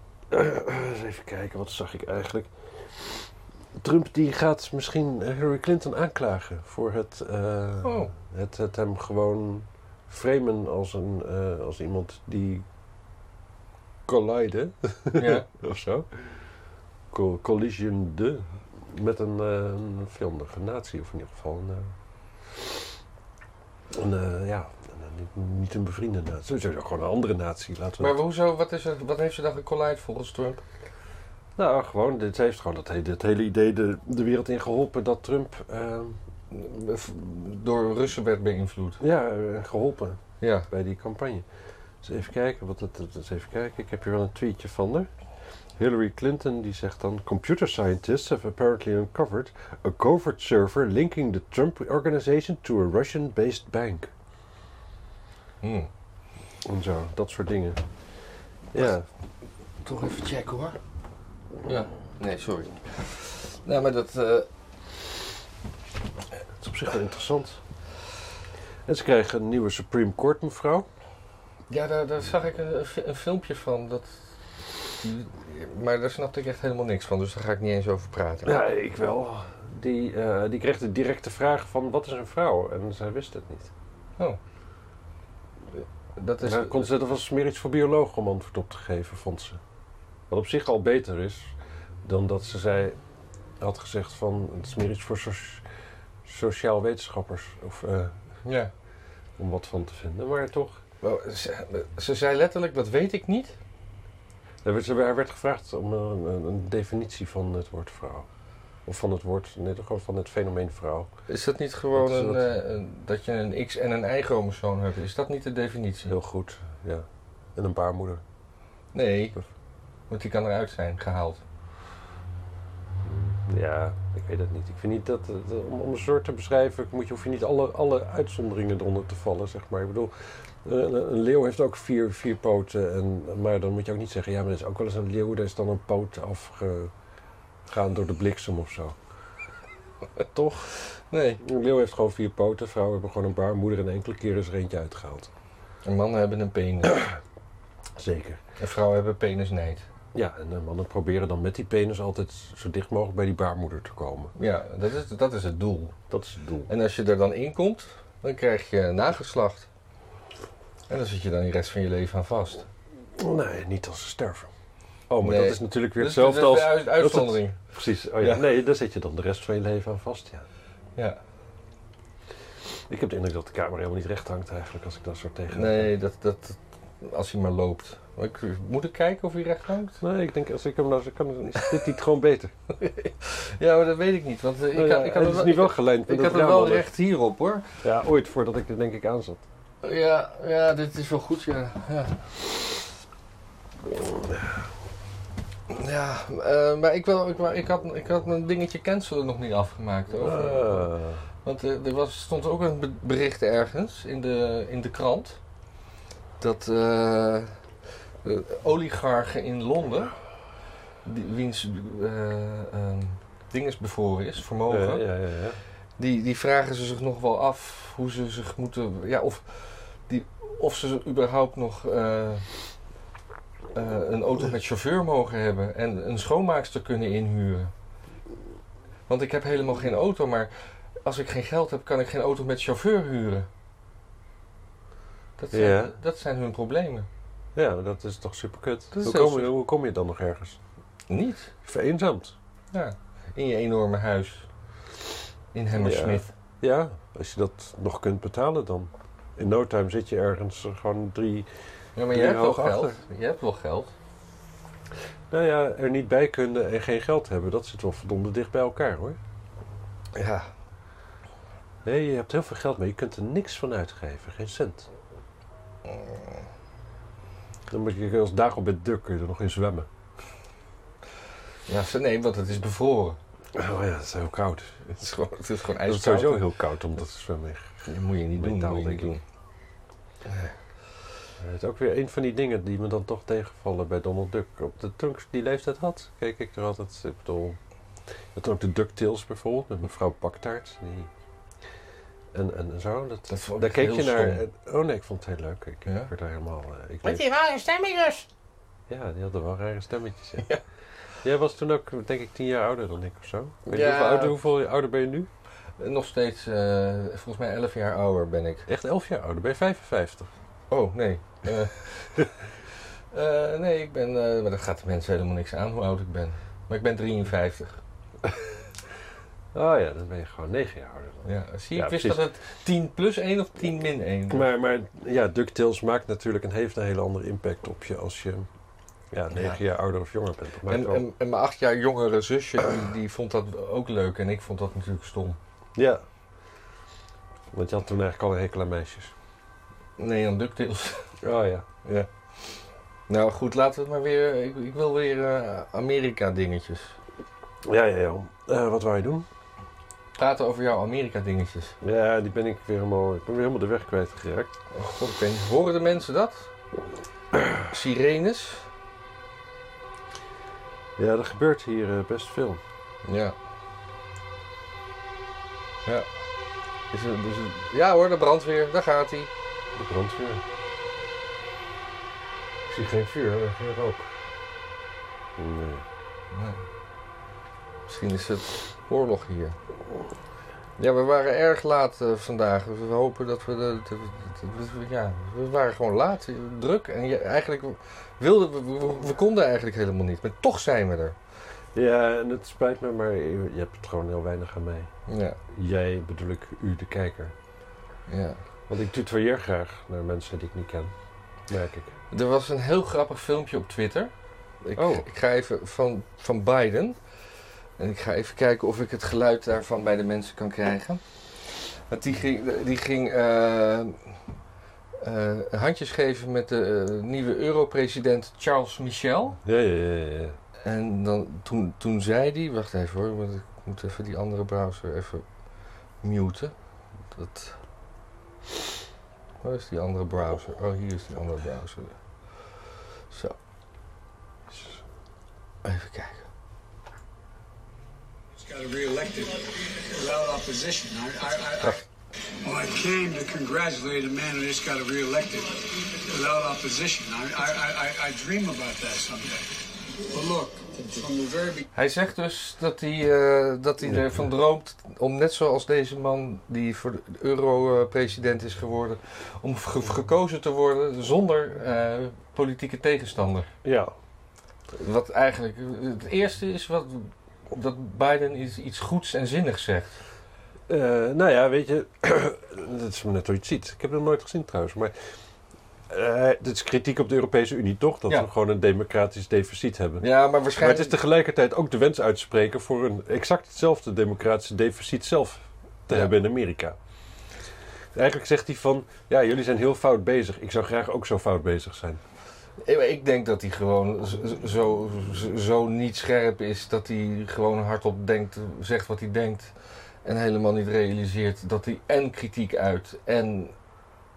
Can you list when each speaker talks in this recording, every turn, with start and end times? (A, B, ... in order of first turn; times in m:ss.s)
0:00.3-0:03.3 A
0:03.8-0:12.6 A
0:07.8-0:08.1 B
0:14.1-0:16.5 A
0:15.2-0:15.5 B
0:17.1-0:21.9 A
0:23.9-0:28.2 A
0:28.0-0:30.6 B
0:31.6-0:36.2 A
0:36.5-0:39.0 B
0:39.0-0:41.4 A
0:40.4-0:40.7 B
0:42.0-0:45.1 A
0:45.8-0:54.1 A
0:55.6-0:55.9 B
0:56.6-0:57.8 A
0:58.7-0:59.1 A
0:59.8-1:00.8 B
1:01.6-1:04.5 B
1:06.6-1:07.6 A
1:08.9-1:10.9 A
1:11.7-1:14.2 B
1:14.9-1:18.5 B
1:18.4-1:23.7 A
1:26.2-1:26.9 B
1:26.4-1:29.6 A
1:30.3-1:31.5 A
1:32.0-1:33.0 A
1:33.6-1:35.6 A
1:36.2-1:38.2 A
1:38.4-1:38.7 B
1:39.4-1:40.8 A
1:41.0-1:43.6 B
1:44.6-1:48.3 A
1:48.9-1:51.1 A
1:51.3-1:56.1 B
1:52.0-1:52.5 A
1:56.1-1:58.2 A
1:58.9-1:59.4 B
2:00.1-2:01.4 B
2:03.0-2:16.9 A
2:17.7-2:19.0 A
2:20.3-2:20.8 A
2:21.1-2:21.4 B
2:21.4-2:25.3 A
2:25.8-2:27.0 B
2:28.0-2:28.4 A
2:28.6-2:29.9 B
2:30.2-2:34.3 A
2:34.4-2:36.0 B
2:36.1-2:36.7 A
2:36.7-2:39.7 B
2:40.9-2:42.7 B
2:43.2-2:44.5 A
2:45.1-2:50.5 A
2:45.2-2:47.6 B
2:48.2-2:48.4 B
2:52.9-2:55.9 A
2:55.5-3:00.0 B
3:00.0-3:02.6 A
3:02.8-3:07.7 B
3:04.7-3:06.9 A
3:07.8-3:09.4 A
3:09.8-3:12.5 B
3:14.0-3:14.6 A
3:15.7-3:20.9 B
3:20.2-3:21.3 A
3:21.4-3:25.4 B
3:26.4-3:27.6 B
3:28.2-3:30.2 B
3:31.0-3:35.0 B
3:34.7-3:35.6 A
3:36.0-3:42.5 B
3:43.7-3:47.7 B
3:49.1-3:53.5 B
3:55.4-3:57.1 B
3:55.5-3:56.0 A
3:57.6-4:00.6 A
3:58.9-3:59.5 B
4:01.1-4:01.5 B
4:01.6-4:02.4 A
4:02.7-4:04.5 B
4:05.5-4:06.3 B
4:05.8-4:11.5 A
4:12.0-4:13.9 B
4:12.1-4:13.0 A
4:15.3-4:19.2 A
4:20.2-4:20.5 B
4:21.8-4:24.9 A
4:25.9-4:26.3 B
4:27.7-4:29.9 A
4:31.7-4:33.2 B
4:33.5-4:35.1 A
4:34.9-4:36.5 B
4:35.8-4:39.2 A
4:37.9-4:39.2 B
4:40.2-4:40.6 B
4:41.4-4:47.6 A
4:48.3-4:51.1 A
4:52.3-4:57.3 A
4:53.3-4:54.4 B
4:55.9-4:56.1 B
4:57.0-4:58.3 B
4:58.9-5:00.5 A
5:01.2-5:05.3 A
5:03.7-5:04.4 B
5:05.8-5:08.6 B
5:08.7-5:10.3 A
5:10.7-5:12.4 B
5:13.1-5:17.8 B
5:19.5-5:22.2 A
5:21.2-5:24.5 B
5:24.3-5:28.5 A
5:29.1-5:31.0 A
5:29.3-5:29.6 B
5:30.7-5:35.4 B
5:35.8-5:36.1 A
5:37.5-5:39.1 A
5:40.0-5:41.1 B
5:41.2-5:41.7 A
5:41.8-5:47.0 B
5:47.6-5:49.3 A
5:50.2-5:51.8 B
5:51.8-5:54.5 A
5:54.7-5:56.5 B
5:57.7-5:58.7 B
6:01.0-6:02.6 A
6:03.0-6:03.4 B
6:06.9-6:09.3 B
6:09.8-6:10.4 A
6:12.7-6:14.2 A
6:15.4-6:15.9 A
6:16.3-6:16.6 B
6:17.9-6:19.6 B
6:20.8-6:31.2 B
6:31.8-6:34.9 A
6:35.1-6:35.4 B
6:35.5-6:37.4 A
6:38.1-6:38.4 B
6:38.7-6:40.9 A
6:41.5-6:42.0 A
6:42.1-6:44.1 B
6:44.6-6:47.0 B
6:44.8-6:45.1 A
6:47.8-6:54.2 B
6:55.0-6:59.4 B
6:59.4-7:00.4 A
7:00.6-7:05.2 B
7:06.0-7:06.5 B
7:07.1-7:07.6 B
7:09.4-7:12.0 B
7:13.1-7:13.4 B
7:15.6-7:16.3 B
7:18.3-7:21.8 C
7:22.4-7:31.7 C
7:31.7-7:43.5 B
7:43.6-7:43.9 A
7:44.8-7:50.0 B
7:50.7-7:54.9 A
7:55.9-8:06.8 A
8:00.0-8:01.0 B
8:08.0-8:12.0 A
8:12.6-8:23.6 B